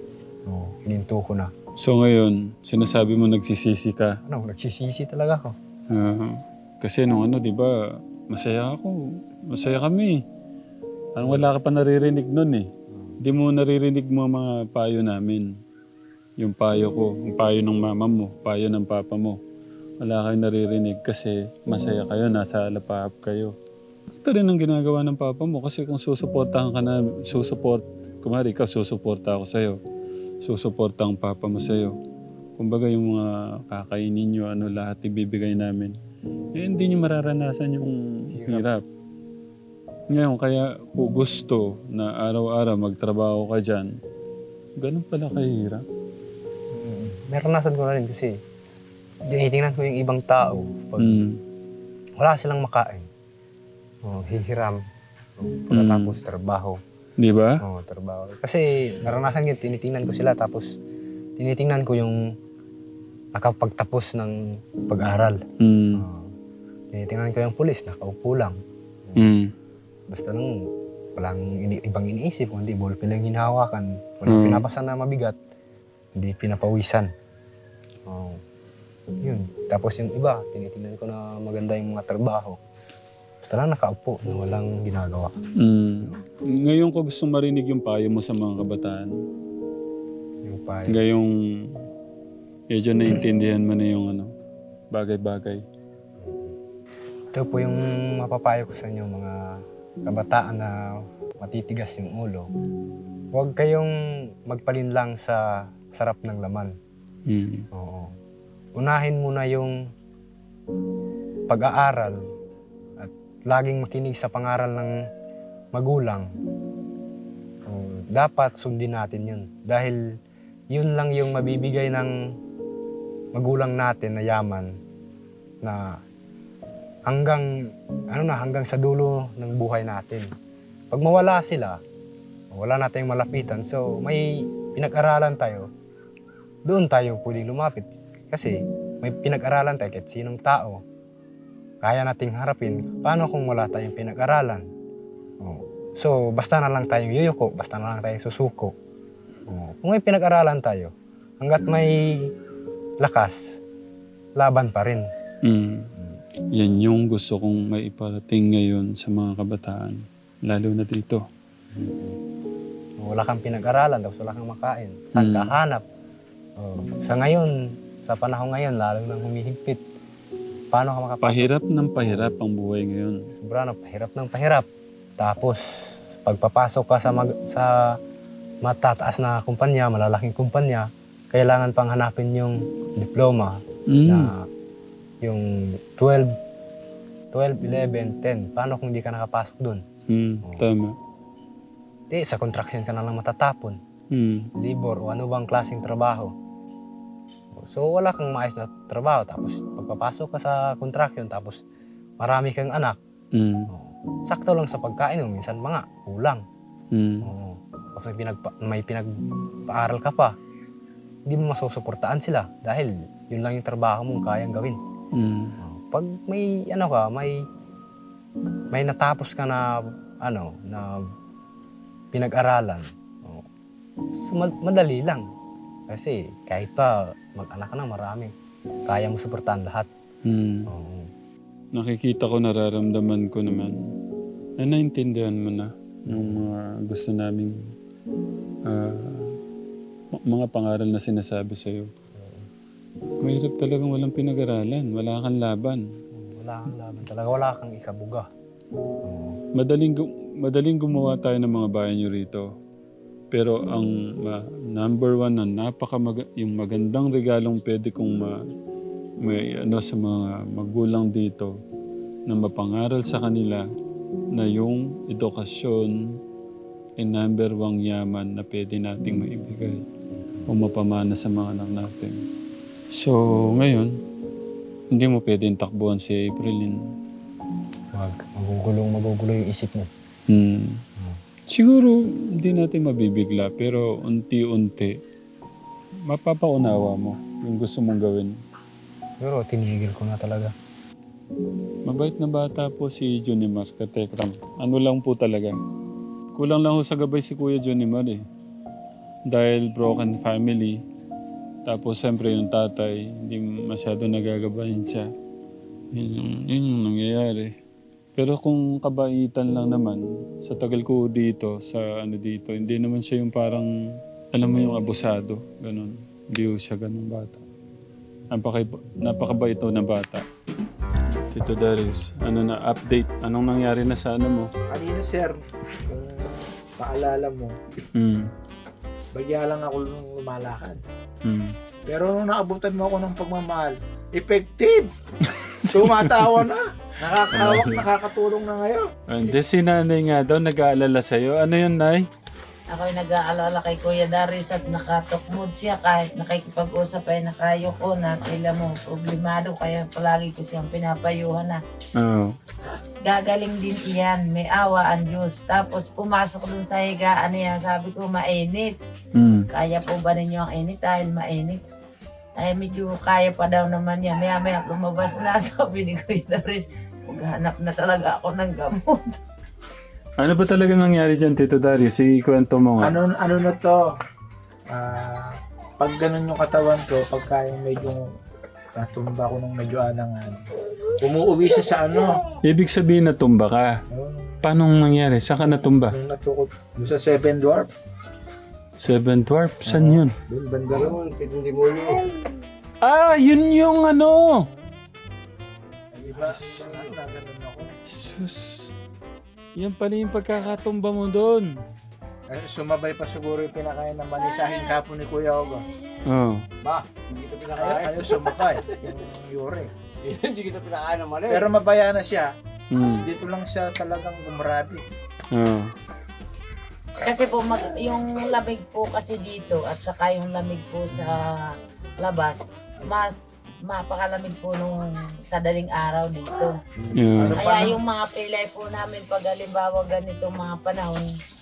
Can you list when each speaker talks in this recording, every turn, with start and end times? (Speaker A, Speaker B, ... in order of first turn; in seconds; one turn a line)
Speaker A: 0.5-1.5
Speaker B: 1.8-4.2
Speaker A: 4.2-5.5
Speaker B: 5.9-7.8
Speaker B: 8.3-8.9
Speaker B: 9.5-10.2
Speaker B: 11.2-12.7
Speaker A: 11.2-11.5
Speaker A: 12.9-13.2
Speaker B: 13.2-15.5
Speaker B: 16.4-19.4
Speaker B: 20.0-23.5
Speaker B: 24.1-29.8
Speaker B: 30.4-31.9
Speaker B: 32.6-35.9
Speaker B: 36.5-38.8
Speaker A: 38.3-38.7
Speaker B: 40.1-43.9
Speaker B: 44.8-45.8
Speaker A: 46.7-48.4
Speaker A: 49.2-51.2
Speaker B: 51.0-51.4
Speaker A: 52.2-53.1
Speaker A: 54.0-54.8
Speaker A: 55.4-56.8
Speaker B: 55.7-56.2
Speaker B: 57.2-57.6
Speaker A: 57.6-60.7
Speaker A: 61.4-62.2
Speaker A: 63.3-65.4
Speaker B: 65.6-66.0
Speaker A: 65.9-66.3
Speaker A: 66.9-69.3
Speaker B: 69.2-69.5
Speaker A: 70.1-70.7
Speaker A: 71.2-75.3
Speaker B: 74.3-74.7
Speaker A: 76.2-77.1
Speaker A: 78.1-78.4
Speaker A: 79.2-82.6
Speaker A: 83.4-85.3
Speaker B: 85.6-89.1
Speaker A: 90.4-91.0
Speaker B: 90.9-91.3
Speaker B: 92.7-94.3
Speaker B: 94.9-95.6
Speaker A: 96.2-96.5
Speaker A: 97.3-102.5
Speaker A: 103.3-106.7
Speaker B: 107.3-107.7
Speaker A: 107.7-108.1
Speaker A: 108.8-109.9
Speaker A: 111.5-112.2
Speaker A: 113.0-115.0
Speaker A: 115.7-116.3
Speaker A: 117.7-120.0
Speaker A: 120.7-122.1
Speaker A: 123.3-124.7
Speaker A: 125.6-126.0
Speaker A: 127.1-127.5
Speaker A: 128.1-130.3
Speaker A: 130.9-131.8
Speaker A: 132.5-135.7
Speaker A: 136.7-140.8
Speaker A: 141.8-144.7
Speaker A: 145.4-148.7
Speaker A: 149.5-152.3
Speaker A: 153.0-153.6
Speaker A: 154.4-155.1
Speaker B: 155.4-155.9
Speaker B: 156.5-161.2
Speaker A: 161.7-162.2
Speaker A: 163.0-165.8
Speaker B: 165.2-165.6
Speaker A: 166.6-169.8
Speaker A: 170.7-172.3
Speaker B: 171.2-173.3
Speaker A: 173.3-174.7
Speaker A: 175.2-178.0
Speaker A: 178.6-184.5
Speaker B: 183.9-184.3
Speaker A: 185.2-186.3
Speaker A: 187.3-189.8
Speaker B: 190.1-190.9
Speaker A: 192.1-193.8
Speaker B: 194.1-194.5
Speaker A: 194.6-196.3
Speaker A: 197.5-201.6
Speaker A: 202.2-203.0
Speaker B: 203.3-203.7
Speaker A: 203.7-206.4
Speaker B: 206.9-207.3
Speaker A: 207.2-209.1
Speaker A: 209.7-210.3
Speaker A: 211.3-214.8
Speaker B: 215.1-215.6
Speaker A: 215.6-217.4
Speaker A: 218.7-221.0
Speaker A: 222.1-223.5
Speaker A: 224.1-225.2
Speaker A: 225.9-228.3
Speaker A: 228.9-229.9
Speaker B: 230.2-230.7
Speaker A: 230.7-231.1
Speaker B: 231.7-233.8
Speaker B: 234.6-237.6
Speaker A: 236.1-236.5
Speaker B: 238.7-239.3
Speaker B: 240.1-241.9
Speaker A: 242.1-242.4
Speaker B: 243.2-245.8
Speaker A: 246.1-248.3
Speaker A: 249.0-249.4
Speaker B: 249.6-252.5
Speaker B: 253.3-258.4
Speaker B: 259.2-261.5
Speaker B: 262.3-263.6
Speaker B: 264.3-266.0
Speaker B: 267.0-269.8
Speaker B: 270.5-272.2
Speaker B: 272.9-273.9
Speaker B: 274.9-276.8
Speaker A: 277.9-279.9
Speaker B: 280.3-280.8
Speaker B: 281.5-284.9
Speaker B: 286.1-288.4
Speaker A: 289.2-290.5
Speaker B: 291.9-295.5
Speaker B: 296.3-298.2
Speaker B: 299.3-300.8
Speaker B: 301.7-305.1
Speaker B: 305.9-307.5
Speaker B: 308.1-313.7
Speaker B: 314.3-317.4
Speaker B: 318.3-320.2
Speaker B: 321.3-324.5
Speaker C: 324.7-327.6
Speaker B: 327.9-328.3
Speaker C: 329.1-330.8
Speaker B: 331.2-331.5
Speaker C: 331.9-334.9
Speaker B: 335.2-336.3
Speaker C: 335.6-338.9
Speaker B: 337.3-337.8
Speaker B: 339.1-342.0
Speaker D: 342.7-351.6
Speaker B: 351.9-352.3
Speaker D: 353.0-358.7
Speaker B: 359.1-359.5
Speaker D: 359.5-361.6
Speaker D: 362.4-369.2
Speaker B: 370.2-373.0
Speaker C: 372.8-373.8
Speaker C: 374.7-378.0
Speaker C: 378.7-380.4
Speaker C: 381.0-382.2
Speaker B: 382.4-383.8
Speaker C: 383.9-384.4
Speaker B: 384.4-385.9
Speaker C: 385.9-387.7
Speaker B: 388.8-390.1
Speaker C: 389.7-391.0
Speaker E: 390.7-392.1
Speaker B: 392.8-394.4
Speaker E: 395.9-397.0
Speaker C: 396.0-397.7
Speaker B: 397.9-398.7
Speaker B: 399.6-401.5
Speaker C: 402.3-405.6
Speaker B: 406.1-406.4
Speaker E: 406.6-408.8
Speaker C: 407.6-409.7
Speaker E: 410.0-411.5
Speaker C: 411.3-412.3
Speaker B: 412.7-413.1
Speaker C: 413.0-414.8
Speaker B: 415.3-415.7
Speaker D: 417.0-426.6
Speaker C: 420.9-421.2
Speaker C: 426.8-427.8
Speaker B: 426.9-427.4
Speaker D: 427.4-431.1